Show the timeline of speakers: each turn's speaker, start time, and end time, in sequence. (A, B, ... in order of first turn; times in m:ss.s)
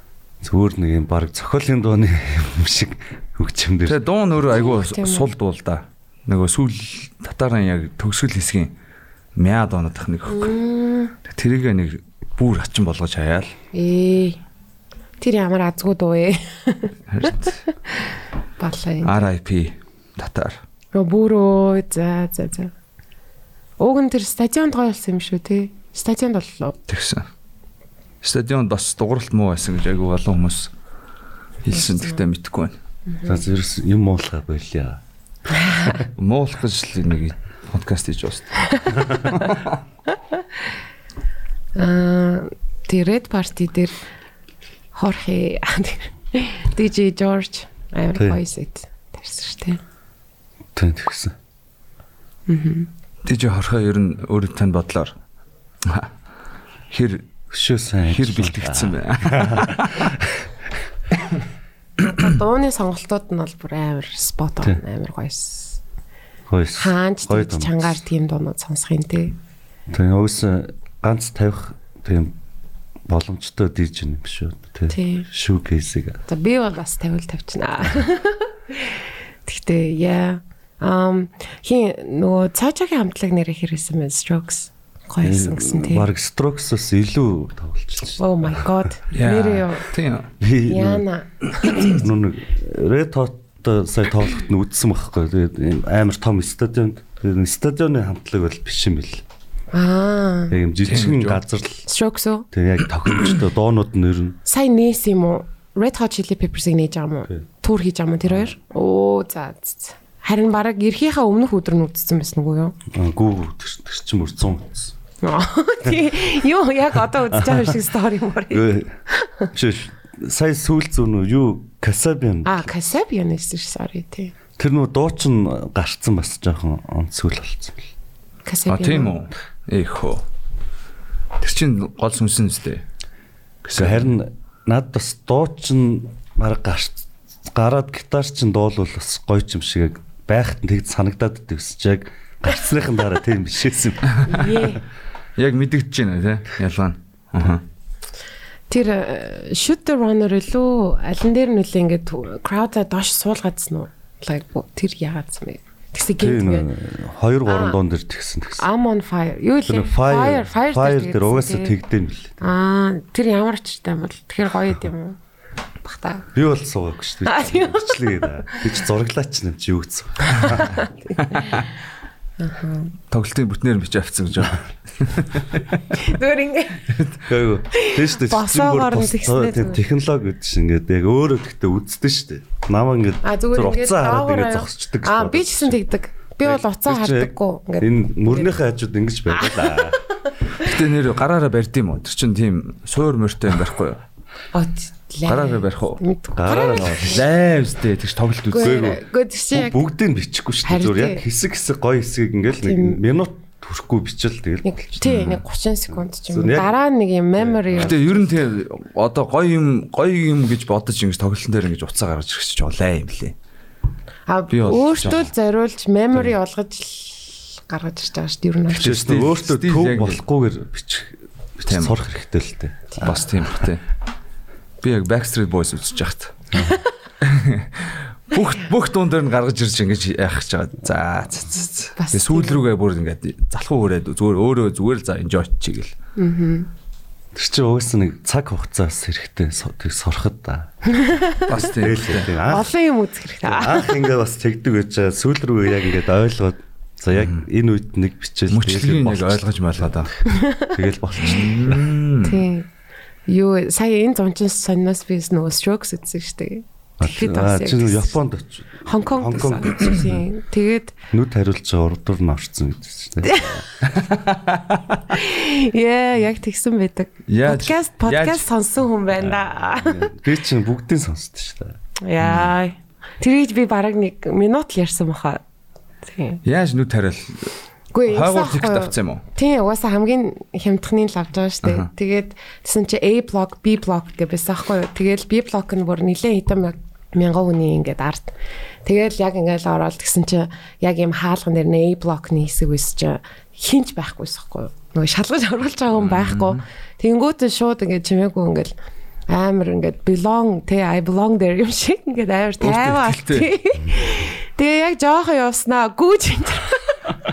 0:00.4-0:04.0 A
0:03.8-0:08.7 B
0:04.5-0:05.3 C
0:09.3-0:10.5 B
0:10.3-0:11.1 C
0:11.3-0:13.5 B
0:13.7-0:14.4 C
0:15.2-0:19.3 C
0:17.1-0:17.6 B
0:19.0-0:20.6 B
0:20.9-0:22.7 C
0:23.8-0:26.7 C
0:26.9-0:27.3 B
0:28.2-0:30.7 B
0:31.6-0:32.8 B
0:31.7-0:32.2 C
0:33.1-0:33.4 C
0:33.2-0:35.0 A
0:35.5-0:36.0 C
0:36.2-0:39.8 B
0:38.7-0:39.0 C
0:41.8-0:43.9 C
0:44.9-0:49.8 C
0:50.8-0:51.3 A
0:52.5-0:52.9 C
0:53.2-0:55.1 B
0:55.8-0:56.1 B
0:56.9-0:57.3 B
0:57.5-1:00.5 A
0:58.1-1:00.1 B
1:02.0-1:05.8 C
1:06.5-1:08.0 A
1:06.8-1:09.3 C
1:09.9-1:12.3 A
1:13.1-1:16.2 A
1:14.9-1:15.3 C
1:16.3-1:26.1 C
1:25.2-1:28.6 A
1:28.2-1:29.9 C
1:29.1-1:30.3 B
1:30.4-1:31.0 A
1:30.7-1:32.0 C
1:31.8-1:39.2 A
1:39.7-1:40.6 C
1:40.5-1:41.8 A
1:40.9-1:41.4 B
1:41.9-1:42.5 C
1:42.5-1:44.4 A
1:44.4-1:52.8 C
1:52.9-1:54.9 A
1:55.2-1:59.5 C
1:57.3-1:57.7 A
1:58.5-1:58.9 A
1:59.5-2:02.7 A
2:02.4-2:04.3 C
2:04.6-2:07.9 A
2:08.4-2:09.1 C
2:08.7-2:10.2 B
2:11.4-2:12.8 B
2:13.6-2:14.1 B
2:13.7-2:24.6 A
2:24.2-2:24.8 C
2:25.4-2:27.6 B
2:28.7-2:36.7 C
2:36.2-2:38.6 A
2:37.4-2:37.8 C
2:38.6-2:41.8 C
2:39.7-2:42.3 A
2:42.4-2:45.2 C
2:45.8-2:46.3 C
2:46.3-2:50.8 A
2:47.2-2:48.6 C
2:50.3-2:51.7 C
2:52.4-2:52.9 C
2:53.1-2:55.6 B
2:55.9-2:56.9 C
2:56.9-2:57.2 B
2:57.3-3:05.8 A
2:57.7-2:59.8 C
3:03.2-3:08.5 C
3:06.4-3:10.0 A
3:09.4-3:09.9 C
3:10.6-3:14.0 B
3:14.5-3:17.2 C
3:15.2-3:16.0 B
3:16.3-3:17.9 A
3:17.1-3:18.9 B
3:18.5-3:19.8 C
3:18.6-3:24.6 A
3:20.6-3:21.2 C
3:22.6-3:23.0 C
3:24.6-3:28.3 C
3:25.0-3:25.4 B
3:26.3-3:26.7 A
3:27.4-3:27.9 A
3:27.8-3:33.3 B
3:34.3-3:38.9 C
3:34.5-3:35.2 B
3:38.7-3:43.7 A
3:38.8-3:40.2 B
3:41.7-3:42.0 B
3:43.0-3:43.8 B
3:44.8-3:46.5 B
3:46.5-3:46.8 A
3:47.2-3:55.9 B
3:52.0-3:52.6 C
3:56.2-3:56.7 C
3:57.3-4:01.0 A
4:01.0-4:01.4 C
4:01.5-4:02.3 B
4:01.6-4:02.7 A
4:02.4-4:04.0 C
4:03.4-4:10.1 A
4:08.5-4:10.1 B
4:10.2-4:10.8 C
4:10.6-4:11.9 A
4:11.2-4:12.4 B
4:12.2-4:12.7 C
4:13.3-4:18.1 C
4:17.0-4:20.2 A
4:18.8-4:20.9 C
4:21.1-4:23.6 A
4:23.2-4:23.6 C
4:23.9-4:25.0 B
4:25.1-4:30.0 C
4:27.3-4:28.4 B
4:29.8-4:31.8 A
4:32.0-4:35.4 C
4:32.2-4:32.5 B
4:36.0-4:36.4 C
4:36.4-4:37.5 B
4:37.9-4:58.7 C
4:38.1-4:39.2 B
4:41.6-4:41.9 B
4:56.0-4:56.6 B
4:59.3-5:07.0 C
5:02.6-5:03.5 B